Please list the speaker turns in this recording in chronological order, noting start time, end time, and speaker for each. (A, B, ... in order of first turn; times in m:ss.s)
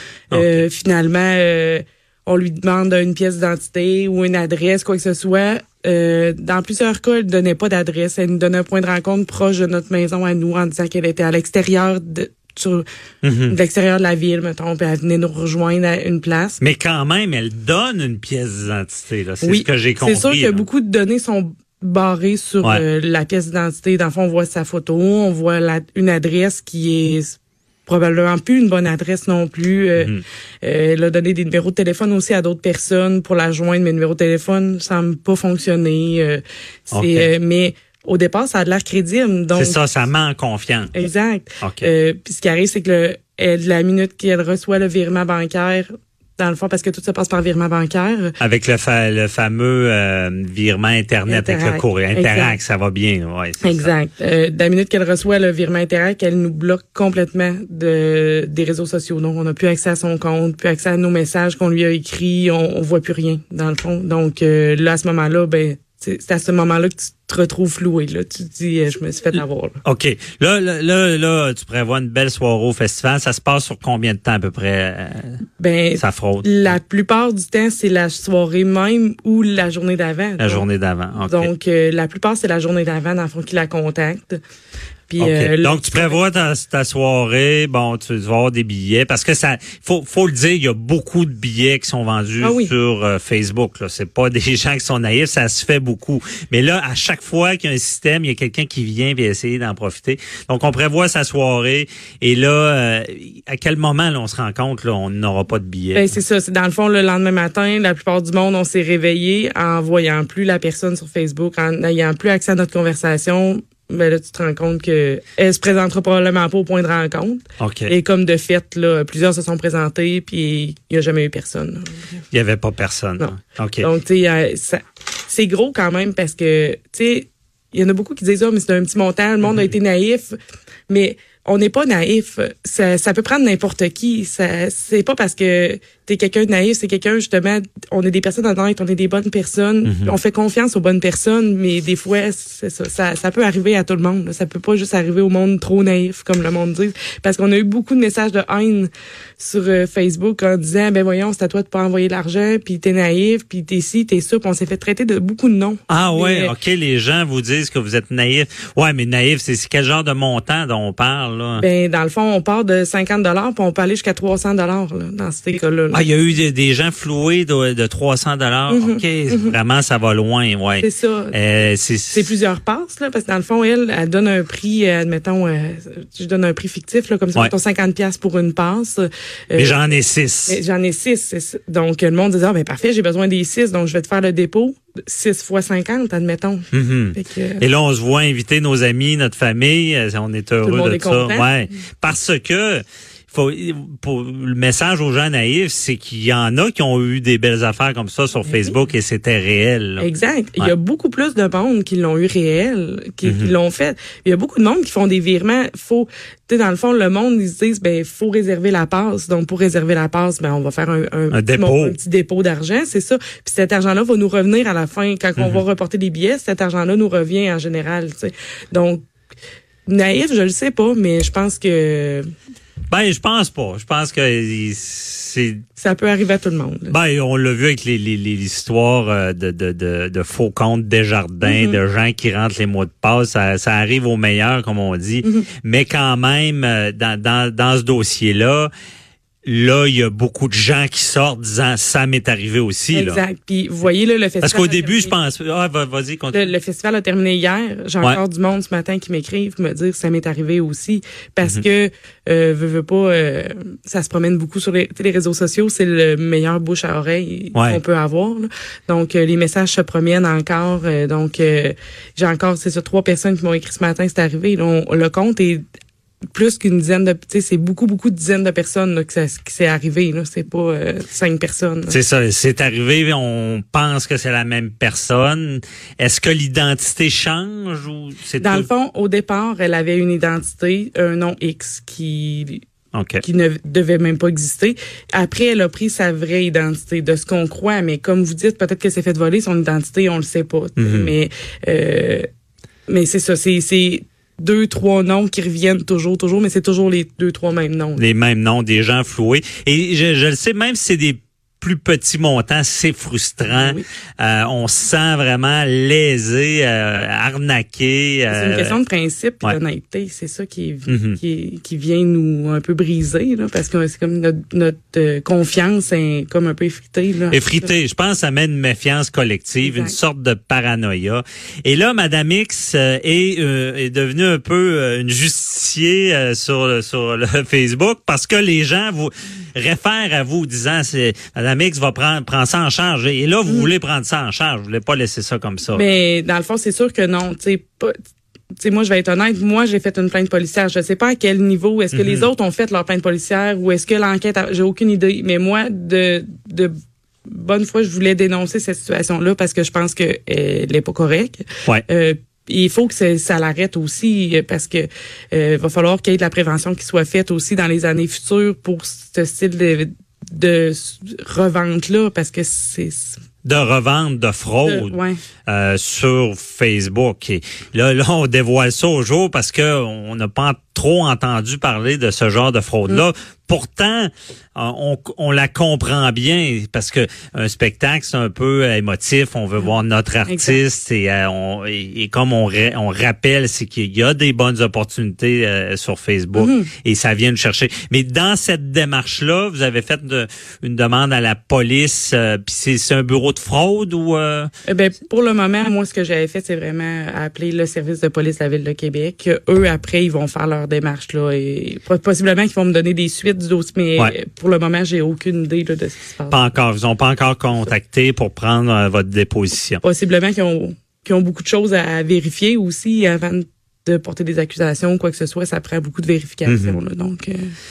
0:00.3-0:00.6 A
0:00.3-0:12.8 B
0:13.2-0:13.6 A
0:13.5-0:16.6 B
0:16.6-0:20.6 A
0:19.4-0:39.8 B
0:30.0-0:30.2 A
0:36.9-0:37.3 A
0:39.6-0:41.0 A
0:40.9-0:48.3 B
0:41.6-0:41.9 A
0:48.4-0:53.9 A
0:51.3-0:52.6 B
0:53.6-1:09.8 B
1:09.8-1:15.4 A
1:15.6-1:20.7 B
1:16.0-1:16.8 A
1:20.4-1:21.5 A
1:21.2-1:24.4 B
1:25.1-1:26.2 B
1:25.2-1:46.1 A
1:32.4-1:32.7 B
1:45.9-2:02.1 B
1:57.6-1:57.9 A
2:02.3-2:03.9 A
2:03.2-2:10.4 B
2:10.9-2:36.6 B
2:19.8-2:20.1 A
2:35.9-2:41.7 A
2:41.6-2:46.1 B
2:45.9-2:52.3 A
2:48.7-2:49.6 B
2:50.8-2:51.4 B
2:52.1-2:59.8 B
2:59.6-3:00.6 A
3:00.5-3:07.6 B
3:06.7-3:20.1 A
3:10.6-3:11.5 B
3:18.4-3:18.8 B
3:20.0-3:39.0 B
3:23.2-3:23.5 A
3:31.3-3:32.0 A
3:35.4-3:35.6 A
3:39.9-3:42.3 B
3:42.9-3:45.6 A
3:45.8-3:47.0 B
3:46.9-3:58.7 A
3:51.4-3:51.8 B
3:59.4-4:03.2 A
4:02.9-4:05.2 B
4:04.4-4:06.5 A
4:06.3-4:25.6 B
4:26.3-4:32.0 B
4:31.9-4:38.7 A
4:38.4-4:42.6 B
4:42.9-4:43.2 A
4:43.2-4:52.3 B
4:50.8-4:51.1 A
4:52.9-4:58.0 B
4:58.0-5:08.8 A
5:03.5-5:03.8 B
5:08.3-5:17.7 B
5:10.9-5:11.2 A
5:17.3-5:35.8 A
5:19.6-5:20.0 B
5:33.5-5:33.7 B
5:35.7-5:38.0 B
5:38.6-5:46.7 B
5:41.9-5:42.3 A
5:47.3-6:03.2 B
6:03.4-6:34.5 A
6:04.6-6:05.2 B
6:20.3-6:20.6 B
6:26.4-6:26.7 B
6:34.7-6:46.5 B
6:46.3-6:49.8 A
6:49.8-6:57.4 B
6:56.4-6:56.8 A